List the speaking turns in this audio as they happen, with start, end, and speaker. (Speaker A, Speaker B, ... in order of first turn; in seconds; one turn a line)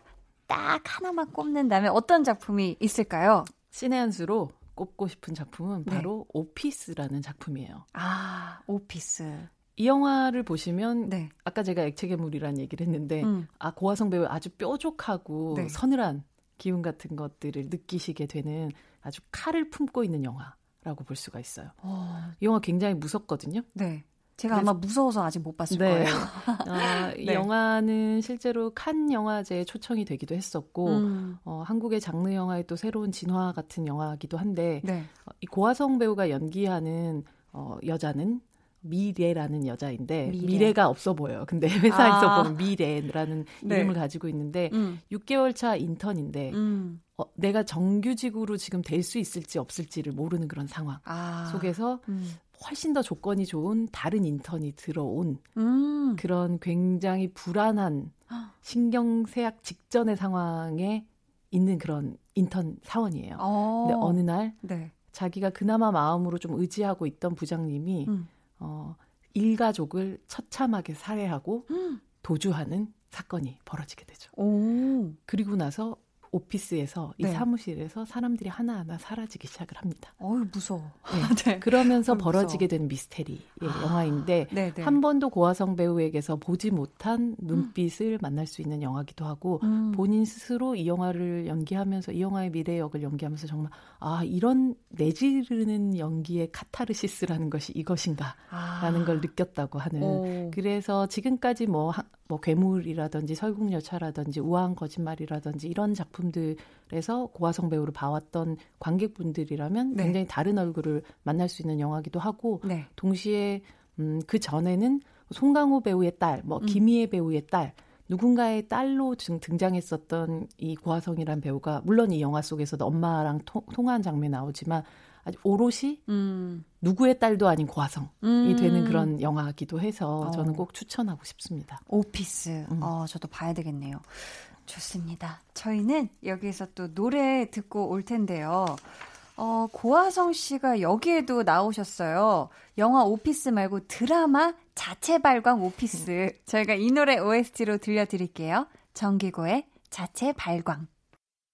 Speaker A: 0.5-3.5
Speaker B: 3.7-7.8
Speaker A: 7.9-9.5
Speaker B: 9.8-21.8
Speaker A: 11.1-11.3
Speaker A: 13.2-13.5
Speaker A: 15.5-15.8
Speaker A: 21.8-22.4
Speaker B: 22.4-23.7
Speaker A: 23.8-27.5
Speaker B: 25.7-46.6
Speaker A: 30.9-31.4
Speaker A: 34.8-35.1
Speaker A: 40.3-40.7
Speaker A: 41.9-42.6
Speaker A: 43.6-44.0
Speaker A: 44.7-45.0
Speaker A: 46.5-47.0
Speaker B: 47.2-55.4
Speaker A: 51.0-52.4
Speaker A: 55.6-56.2
Speaker B: 56.2-64.6
Speaker A: 63.4-64.9
Speaker B: 65.1-74.3
Speaker A: 71.7-72.0
Speaker A: 74.3-75.2
Speaker B: 75.3-80.2
Speaker A: 77.2-77.5
Speaker A: 80.2-82.7
Speaker B: 81.1-126.0
Speaker A: 83.6-85.0
Speaker A: 89.6-90.0
Speaker A: 98.5-99.3
Speaker A: 100.0-100.6
Speaker A: 112.6-112.9
Speaker A: 126.1-126.6
Speaker B: 126.8-131.8
Speaker A: 128.2-129.1
Speaker A: 130.2-130.6
Speaker A: 131.9-150.9